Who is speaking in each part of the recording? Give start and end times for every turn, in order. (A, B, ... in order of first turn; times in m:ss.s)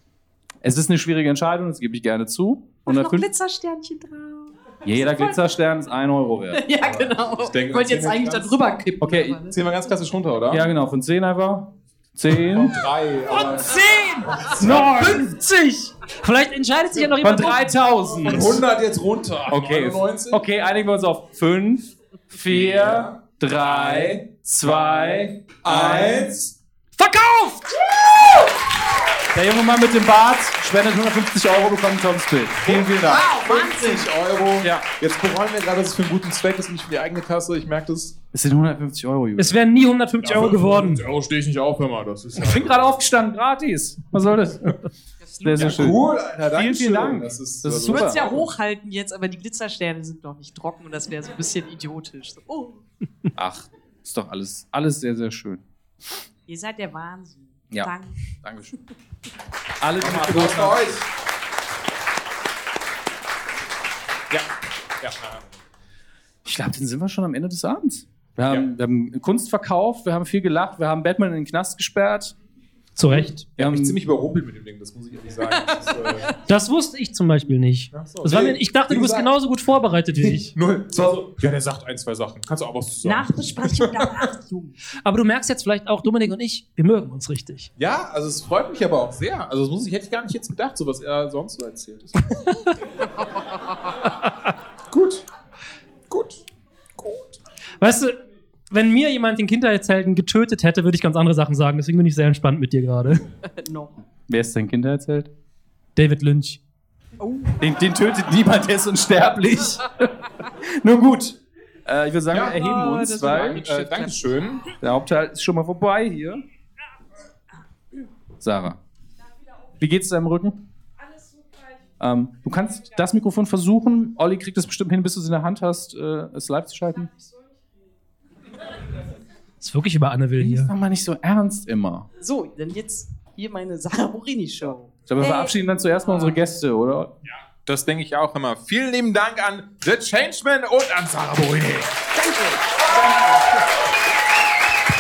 0:00.6-0:03.3 A
0:02.9-0:05.4 B
0:04.8-0:06.7 A
0:06.5-0:09.6 B
0:07.4-0:08.5 C
0:09.0-0:09.4 A
0:09.5-0:10.7 C
0:10.5-0:12.8 A
0:12.3-0:15.2 C
0:13.4-0:14.1 D
0:14.5-0:15.9 A
0:16.2-0:17.8 D
0:17.2-0:18.6 A
0:18.1-0:20.4 C
0:19.5-0:26.4 A
0:22.5-0:26.5 C
0:27.0-0:27.6 A
0:29.3-0:33.3 A
0:32.6-0:38.2 C
0:33.3-0:33.7 B
0:34.6-0:34.9 A
0:38.3-0:39.6 A
0:39.4-0:41.0 D
0:40.2-0:42.9 C
0:42.4-0:44.8 A
0:45.3-0:45.6 B
0:45.4-0:48.2 A
0:45.5-0:48.5 C
0:47.8-0:52.8 B
0:53.4-0:55.6 A
0:56.5-0:58.2 B
0:57.7-0:58.8 A
0:59.8-1:00.8 A
1:00.0-1:01.1 C
1:05.0-1:05.5 C
1:06.4-1:12.4 A
1:13.0-1:13.6 D
1:13.1-1:16.3 C
1:13.6-1:14.0 A
1:16.5-1:20.5 D
1:17.9-1:19.4 C
1:20.1-1:24.3 C
1:23.0-1:24.8 B
1:25.0-1:27.7 D
1:27.8-1:32.2 C
1:34.9-1:35.2 C
1:36.1-1:36.4 C
1:37.0-1:37.4 C
1:37.8-1:38.2 D
1:38.7-1:43.2 D
1:43.6-1:43.9 B
1:44.3-1:45.3 A
1:46.0-1:46.6 D
1:47.2-1:47.6 B
1:47.6-1:49.9 A
1:50.8-1:53.6 A
1:52.3-1:52.6 C
1:52.5-1:54.4 B
1:53.3-1:54.6 C
1:54.8-1:56.4 A
1:58.4-1:58.8 A
1:59.8-2:00.6 A
2:02.0-2:07.1 A
2:09.6-2:10.7 D
2:10.4-2:12.1 A
2:12.2-2:16.4 B
2:15.1-2:17.1 A
2:17.5-2:22.0 C
2:22.2-2:23.4 B